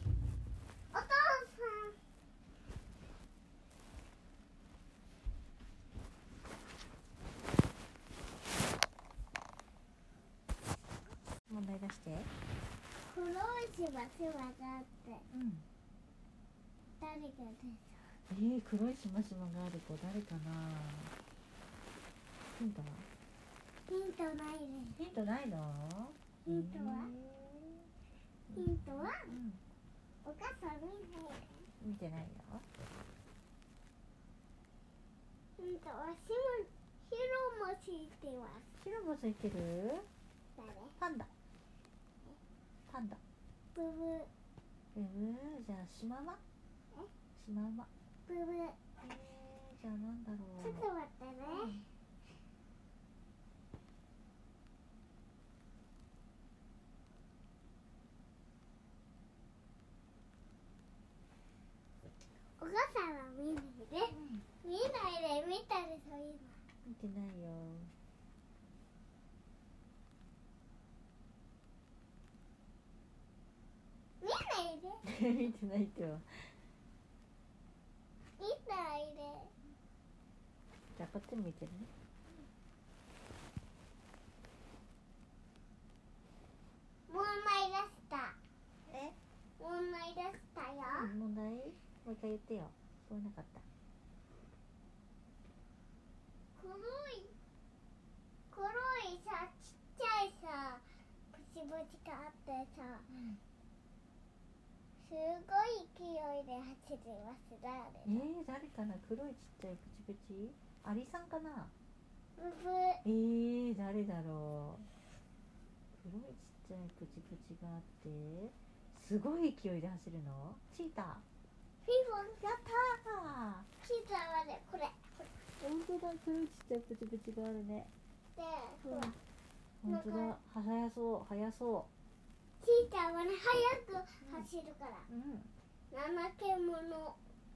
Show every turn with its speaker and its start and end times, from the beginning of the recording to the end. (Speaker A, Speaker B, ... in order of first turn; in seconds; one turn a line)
Speaker A: 0.9-2.0
Speaker B: 11.5-12.3
Speaker A: 13.0-15.2
Speaker B: 15.3-15.7
Speaker A: 17.0-18.2
Speaker B: 18.3-21.1
Speaker B: 22.5-23.1
Speaker A: 23.9-25.0
Speaker B: 24.9-27.9
Speaker A: 26.5-27.1
Speaker B: 28.5-29.6
Speaker A: 28.5-29.3
Speaker A: 30.2-31.7
Speaker B: 31.8-32.7
Speaker A: 35.6-38.7
Speaker B: 38.8-40.1
Speaker A: 40.5-41.0
Speaker B: 41.0-41.3
Speaker B: 42.9-43.2
Speaker A: 43.7-44.3
Speaker B: 44.9-46.4
Speaker B: 47.4-47.9
Speaker A: 48.3-48.8
Speaker B: 49.0-50.9
Speaker A: 50.6-51.8
Speaker B: 51.5-51.9
Speaker A: 62.6-66.6
Speaker B: 64.1-64.4
Speaker B: 66.8-67.9
Speaker A: 74.2-75.0
Speaker B: 75.0-76.6
Speaker A: 78.4-79.5
Speaker B: 80.9-81.9
Speaker A: 87.1-88.4
Speaker B: 88.9-89.2
Speaker A: 89.6-91.1
Speaker B: 90.9-93.7
Speaker A: 96.6-97.3
Speaker A: 98.5-103.1
Speaker B: 103.1-103.4
Speaker A: 105.0-108.3
Speaker B: 108.0-111.7
Speaker A: 112.4-113.0
Speaker B: 113.0-114.9
Speaker B: 116.0-121.2
Speaker A: 121.8-122.4
Speaker B: 122.4-123.7
Speaker A: 123.8-125.3
Speaker B: 125.6-127.9
Speaker A: 128.4-129.2
Speaker B: 128.8-129.2
Speaker B: 129.8-131.9
Speaker A: 129.9-130.3
Speaker A: 132.6-135.1
Speaker B: 134.2-134.5
Speaker B: 135.1-135.5
Speaker A: 135.9-137.2